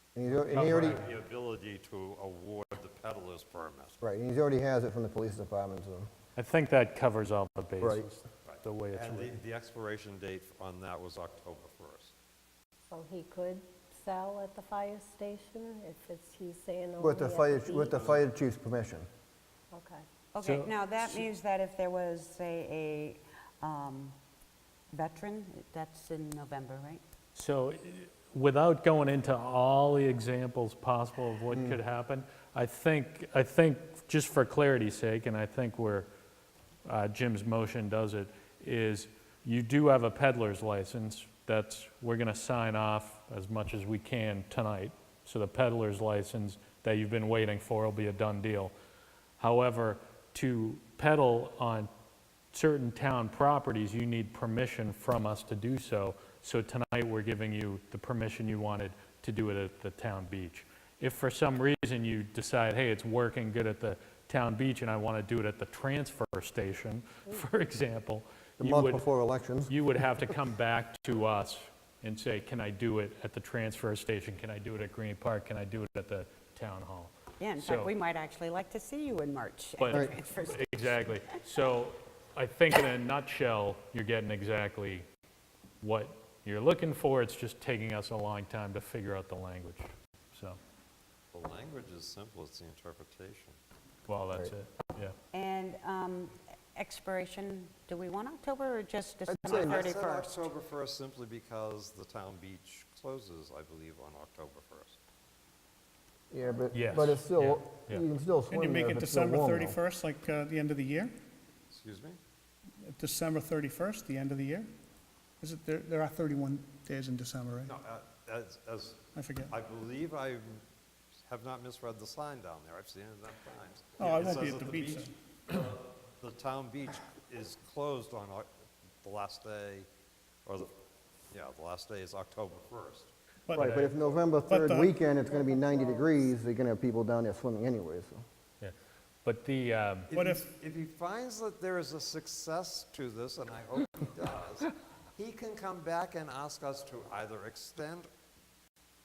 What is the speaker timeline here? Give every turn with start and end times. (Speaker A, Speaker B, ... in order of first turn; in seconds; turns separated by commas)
Speaker A: 0.1-1.1, Speaker B: 0.5-1.1, Speaker C: 0.6-4.0, Speaker A: 4.0-6.1, Speaker B: 6.3-9.4, Speaker A: 7.8-8.1, Speaker C: 8.4-12.1, Speaker D: 12.9-18.1, Speaker A: 17.0-19.1, Speaker D: 19.7-20.0, Speaker E: 20.3-24.1, Speaker B: 20.4-21.3, Speaker E: 24.9-27.0, Speaker B: 27.3-36.1, Speaker A: 31.5-31.8, Speaker B: 36.9-48.7, Speaker B: 49.4-51.9, Speaker B: 52.5-69.0, Speaker A: 68.6-69.8, Speaker B: 69.7-77.9, Speaker E: 77.4-81.3, Speaker B: 79.8-85.0, Speaker B: 85.8-90.6, Speaker C: 91.3-93.6, Speaker B: 94.1-95.1, Speaker E: 95.3-100.5, Speaker A: 99.3-99.8, Speaker C: 99.5-105.0, Speaker A: 106.3-109.8, Speaker B: 106.7-108.0, Speaker F: 108.5-111.1, Speaker C: 111.7-112.2, Speaker F: 112.8-114.7, Speaker F: 115.4-117.7, Speaker C: 117.7-120.6, Speaker F: 119.1-119.5, Speaker C: 121.2-128.5, Speaker F: 124.0-125.1, Speaker C: 129.0-129.9, Speaker C: 130.4-130.7, Speaker C: 131.3-133.1, Speaker F: 133.5-133.9, Speaker A: 133.6-138.2, Speaker B: 133.6-133.9, Speaker F: 134.4-134.9, Speaker D: 135.0-136.3, Speaker B: 138.6-140.1, Speaker C: 140.1-148.1, Speaker F: 140.1-140.5